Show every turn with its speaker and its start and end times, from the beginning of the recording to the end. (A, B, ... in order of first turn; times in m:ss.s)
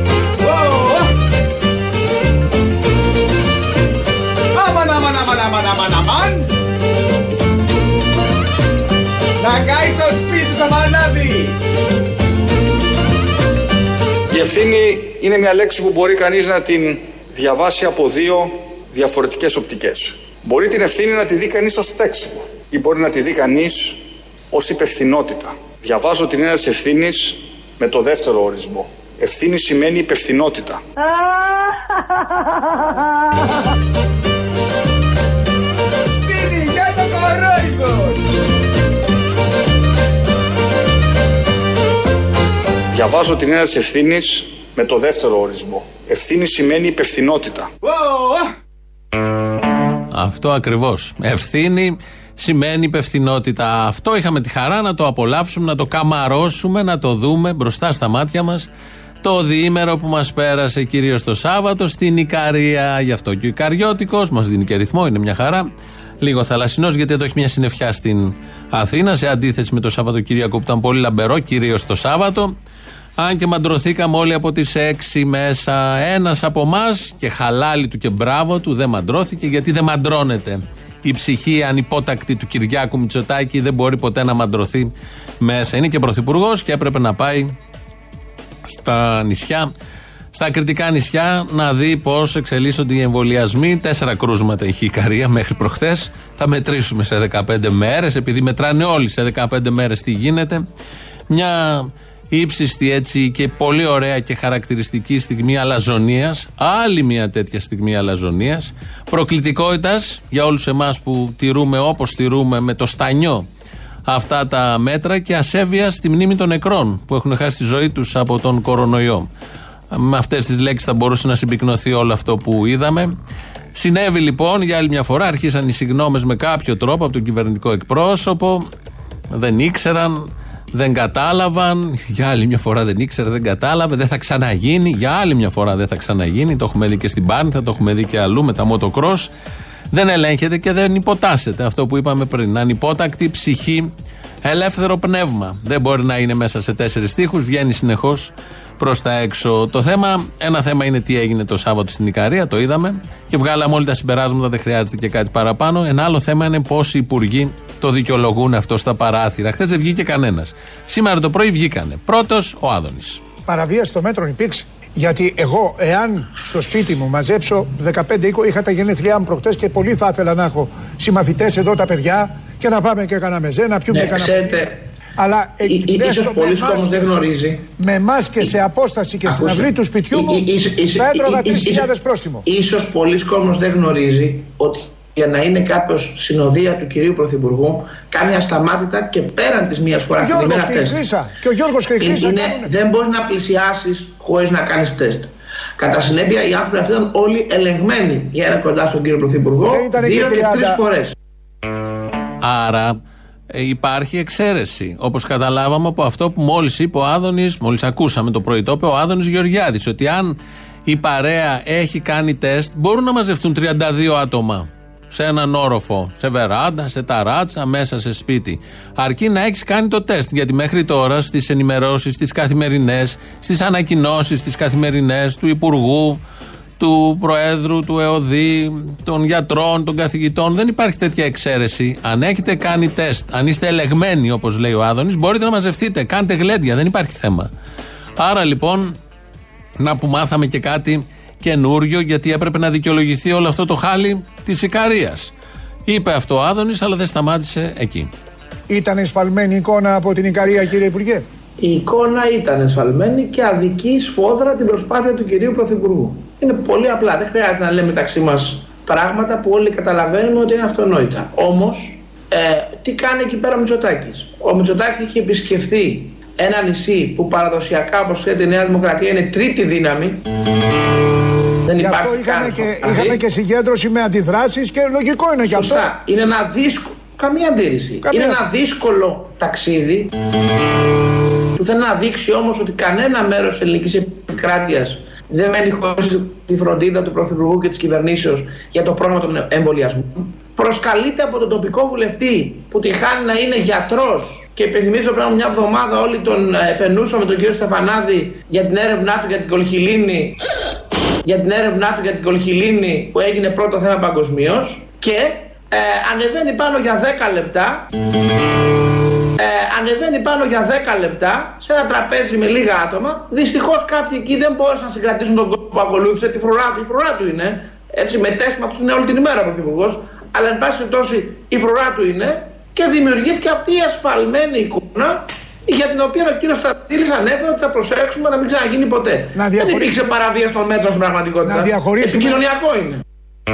0:00.4-0:01.1 A
0:04.5-0:06.5 A
0:09.4-0:11.5 A
0:14.3-0:30.8 B
0:36.1-0:38.2 A
0:42.9-0:47.7 B
0:47.8-0:48.4 A
0:50.1-0:58.7 C
0:59.2-1:05.7 C
1:06.2-1:12.5 C
1:13.2-1:27.5 C
1:28.6-1:29.7 C
1:30.3-1:40.6 C
1:41.3-1:53.4 C
1:54.1-1:59.3 C
1:59.9-2:03.1 C
2:03.7-2:08.7 C
2:09.3-2:19.3 C
2:19.9-2:23.9 C
2:24.4-2:43.2 C
2:43.5-2:54.6 D
2:53.9-2:54.8 E
2:55.2-2:57.2 D
2:55.7-2:57.6 E
2:57.8-3:02.4 D
2:59.3-3:01.9 E
3:02.4-3:11.0 E
3:10.1-3:12.7 D
3:12.0-3:21.1 E
3:19.7-3:20.8 D
3:22.4-3:23.0 C
3:23.5-3:46.2 C
3:46.8-3:57.5 C
3:58.2-3:59.0 C
3:59.8-4:05.3 C
4:05.8-4:08.1 C
4:08.7-4:11.2 D
4:11.6-4:30.2 E
4:31.7-4:33.2 E
4:31.8-4:35.8 D
4:35.5-4:40.1 E
4:38.0-4:38.4 D
4:41.6-5:00.4 E
5:01.2-5:07.8 E
5:09.4-5:33.0 E
5:29.3-5:30.0 D
5:31.4-5:32.4 D